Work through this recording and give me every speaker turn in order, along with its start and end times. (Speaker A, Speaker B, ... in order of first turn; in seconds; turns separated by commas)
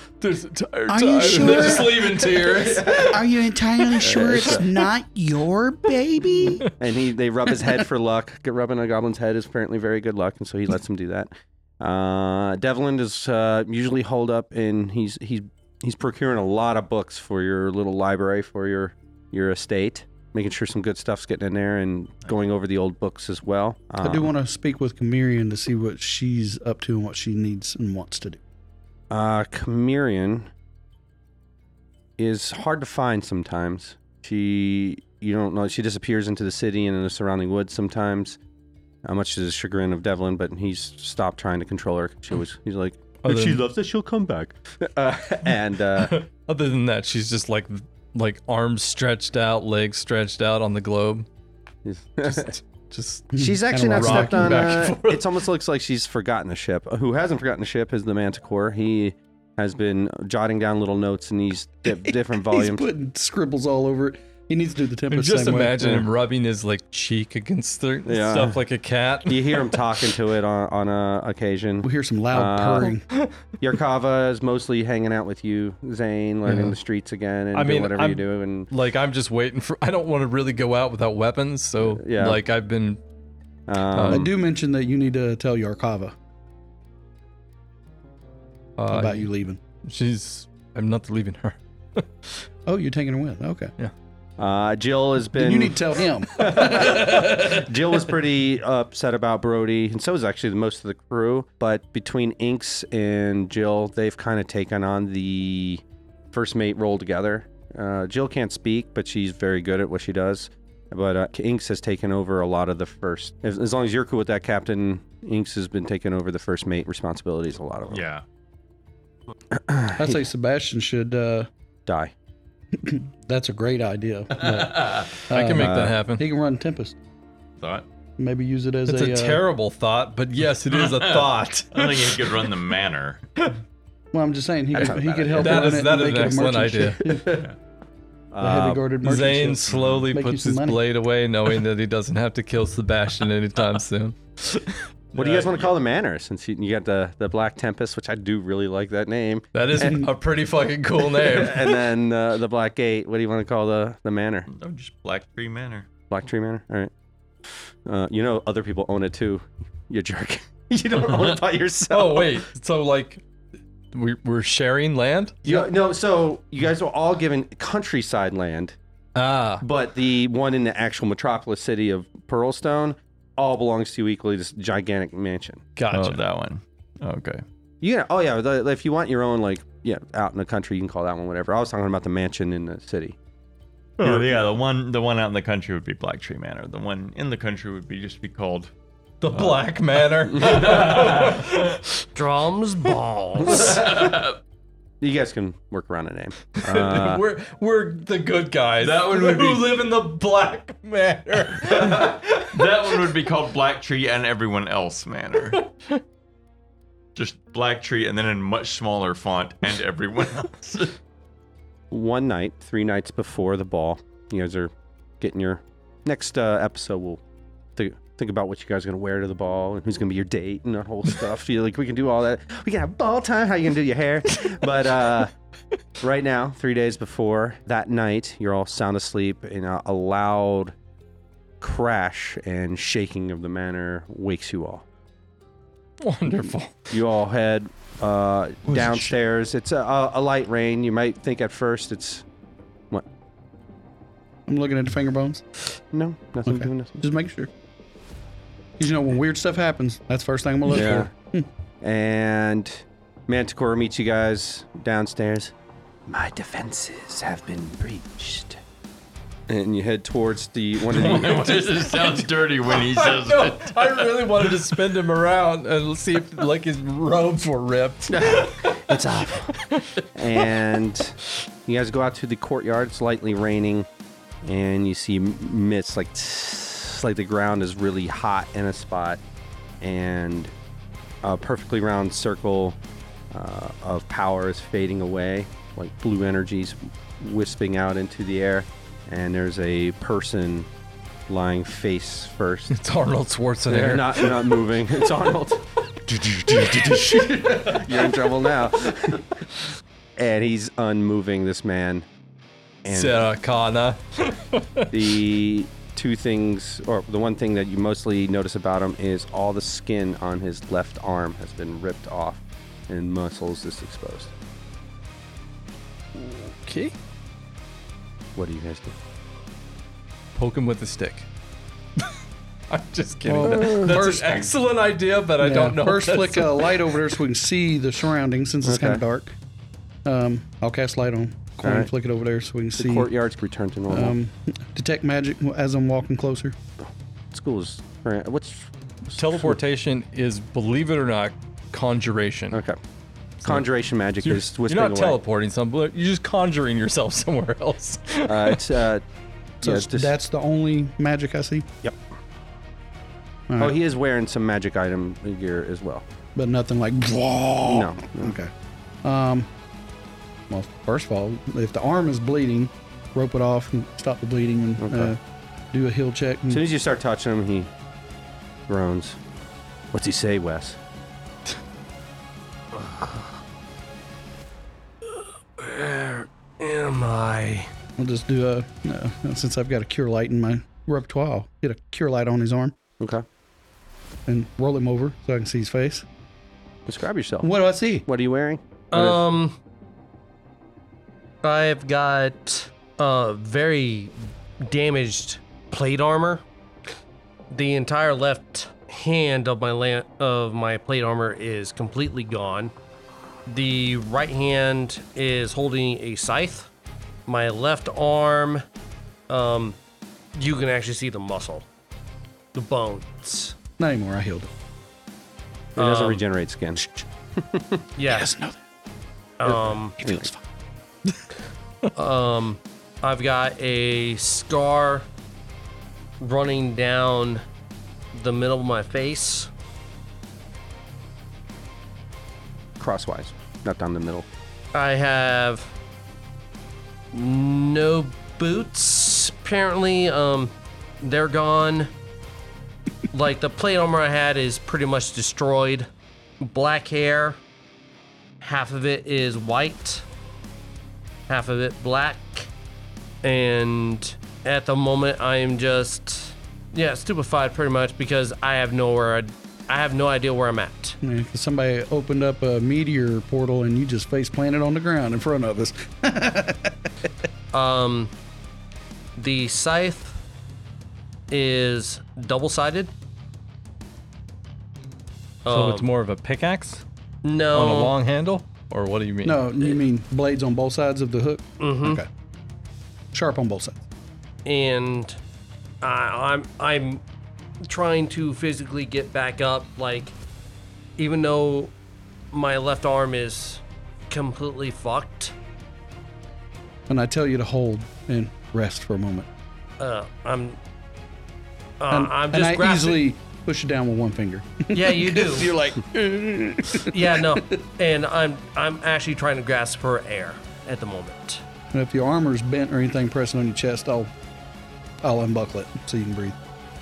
Speaker A: 0.2-3.2, Speaker B: 0.9-6.7, Speaker C: 1.4-3.1, Speaker A: 3.9-4.6, Speaker C: 4.0-4.7, Speaker C: 6.8-24.3, Speaker B: 24.0-28.4, Speaker C: 29.1-30.5, Speaker C: 32.2-38.4, Speaker C: 39.0-46.1, Speaker A: 43.2-43.6, Speaker A: 46.0-51.3, Speaker C: 51.8-52.5, Speaker A: 52.2-53.3, Speaker B: 53.3-54.9, Speaker C: 53.4-62.9, Speaker A: 53.9-55.3, Speaker B: 62.0-66.0, Speaker A: 65.1-69.8, Speaker C: 65.8-66.0, Speaker C: 68.0-68.6, Speaker C: 69.2-72.9, Speaker B: 71.8-73.0, Speaker C: 73.6-78.7, Speaker A: 76.5-76.7, Speaker A: 77.5-83.0, Speaker C: 81.8-82.4, Speaker C: 83.7-84.3, Speaker A: 83.9-84.2, Speaker B: 84.1-86.1, Speaker A: 88.8-89.3, Speaker B: 88.9-89.6, Speaker A: 89.8-92.5, Speaker B: 92.7-93.7, Speaker C: 94.4-118.0, Speaker B: 95.3-97.2, Speaker D: 117.9-118.2, Speaker C: 119.5-120.2, Speaker B: 120.0-121.5, Speaker C: 121.8-122.1, Speaker B: 122.8-127.0, Speaker D: 124.4-125.1, Speaker A: 125.3-126.2, Speaker C: 125.5-126.0, Speaker D: 127.6-127.8, Speaker B: 128.2-129.4, Speaker A: 128.9-132.5, Speaker D: 130.7-133.2, Speaker B: 134.1-137.4, Speaker C: 134.7-135.7, Speaker A: 135.3-137.3, Speaker C: 138.3-138.8, Speaker B: 138.4-140.8, Speaker A: 139.0-144.9, Speaker D: 139.7-140.1, Speaker D: 145.1-145.7, Speaker C: 145.1-150.1, Speaker A: 149.5-151.8, Speaker C: 151.0-154.5, Speaker D: 154.5-155.9, Speaker C: 156.1-156.9, Speaker C: 157.5-162.4, Speaker A: 161.9-163.2, Speaker A: 163.9-165.6, Speaker C: 165.4-168.8, Speaker A: 169.1-169.6, Speaker C: 169.6-175.6, Speaker A: 175.8-176.2, Speaker D: 175.9-177.4, Speaker C: 177.8-183.2, Speaker D: 184.0-188.7, Speaker C: 184.0-184.3, Speaker A: 189.2-192.1, Speaker D: 189.3-191.7, Speaker E: 192.1-193.6, Speaker D: 193.5-194.4, Speaker A: 193.6-194.1, Speaker C: 193.6-194.0, Speaker C: 195.0-197.2, Speaker A: 196.6-203.0, Speaker D: 198.8-199.8, Speaker D: 201.6-205.6, Speaker D: 207.2-210.9, Speaker C: 211.9-217.2, Speaker C: 217.8-225.3, Speaker C: 226.0-230.7, Speaker C: 231.6-234.8, Speaker A: 236.0-236.8, Speaker C: 236.9-242.2, Speaker A: 238.7-239.1, Speaker B: 244.5-245.4, Speaker C: 245.9-247.0, Speaker B: 246.4-247.5, Speaker B: 248.8-251.5, Speaker C: 250.7-251.1, Speaker C: 251.8-255.5, Speaker C: 256.1-258.6, Speaker C: 259.5-261.9, Speaker D: 260.9-264.8, Speaker A: 261.2-269.0, Speaker C: 268.1-269.6, Speaker A: 269.6-270.5, Speaker C: 270.1-273.9, Speaker C: 274.4-279.2, Speaker C: 279.8-280.5, Speaker C: 281.2-282.8, Speaker C: 283.3-290.7, Speaker C: 291.3-292.8, Speaker A: 292.7-294.4, Speaker C: 293.7-299.4, Speaker C: 300.1-302.1, Speaker C: 302.8-303.2, Speaker A: 302.9-304.9, Speaker C: 304.9-314.3, Speaker A: 316.1-316.9, Speaker C: 318.4-318.9, Speaker A: 320.3-321.3, Speaker A: 322.7-326.8, Speaker B: 323.3-324.5, Speaker C: 323.4-324.0, Speaker B: 325.4-329.3, Speaker C: 328.6-329.0, Speaker B: 330.0-333.1, Speaker C: 331.6-331.9, Speaker C: 332.8-334.1, Speaker B: 333.9-336.6, Speaker C: 336.8-339.5, Speaker A: 339.1-342.6, Speaker C: 342.5-342.8, Speaker C: 343.4-345.2, Speaker A: 344.2-348.6, Speaker C: 348.2-349.0, Speaker C: 349.6-350.1, Speaker B: 349.6-351.7, Speaker B: 353.5-353.8, Speaker C: 353.6-356.0, Speaker B: 356.4-358.5, Speaker C: 357.7-358.4, Speaker B: 359.0-359.5, Speaker B: 360.5-365.2, Speaker C: 364.8-365.1, Speaker B: 365.7-366.6, Speaker C: 366.5-367.7, Speaker C: 368.7-369.2, Speaker C: 369.9-370.8, Speaker E: 372.7-373.2, Speaker E: 375.0-377.7, Speaker B: 378.0-382.8, Speaker C: 383.0-383.2, Speaker B: 384.3-386.1, Speaker C: 386.9-387.5, Speaker B: 387.4-388.1, Speaker C: 388.0-389.2, Speaker E: 388.9-389.6, Speaker E: 391.4-396.4, Speaker E: 397.5-402.7, Speaker E: 403.5-406.7, Speaker E: 407.3-408.6, Speaker E: 409.3-409.8, Speaker E: 410.3-411.7, Speaker E: 412.5-413.6, Speaker B: 413.8-414.5, Speaker C: 415.7-416.8, Speaker E: 415.8-416.2, Speaker C: 417.4-417.8, Speaker E: 418.0-418.3, Speaker B: 418.1-418.6, Speaker E: 419.4-420.0, Speaker B: 419.5-420.4, Speaker C: 420.0-420.3, Speaker E: 421.9-425.1, Speaker E: 426.2-427.4, Speaker E: 428.1-429.5, Speaker C: 432.8-434.3, Speaker E: 434.7-435.7, Speaker E: 437.1-441.9, Speaker E: 443.1-445.9, Speaker E: 446.4-447.4, Speaker E: 448.4-450.1, Speaker E: 451.3-452.5, Speaker E: 453.2-461.0, Speaker B: 461.0-466.8, Speaker E: 467.5-468.1, Speaker E: 469.2-470.2, Speaker E: 471.3-472.9, Speaker E: 475.4-475.9, Speaker A: 475.5-476.8, Speaker E: 477.2-477.9, Speaker A: 477.5-479.4, Speaker B: 479.2-482.1, Speaker E: 481.6-482.0, Speaker B: 483.1-483.8, Speaker E: 484.4-485.2, Speaker E: 485.8-487.0, Speaker E: 487.6-490.1, Speaker E: 491.0-491.7, Speaker E: 492.3-495.3, Speaker B: 496.9-499.3, Speaker E: 499.8-500.6, Speaker E: 501.8-503.1, Speaker B: 501.9-507.6, Speaker E: 504.7-505.5, Speaker E: 506.9-511.4, Speaker B: 511.7-514.1, Speaker B: 515.0-516.4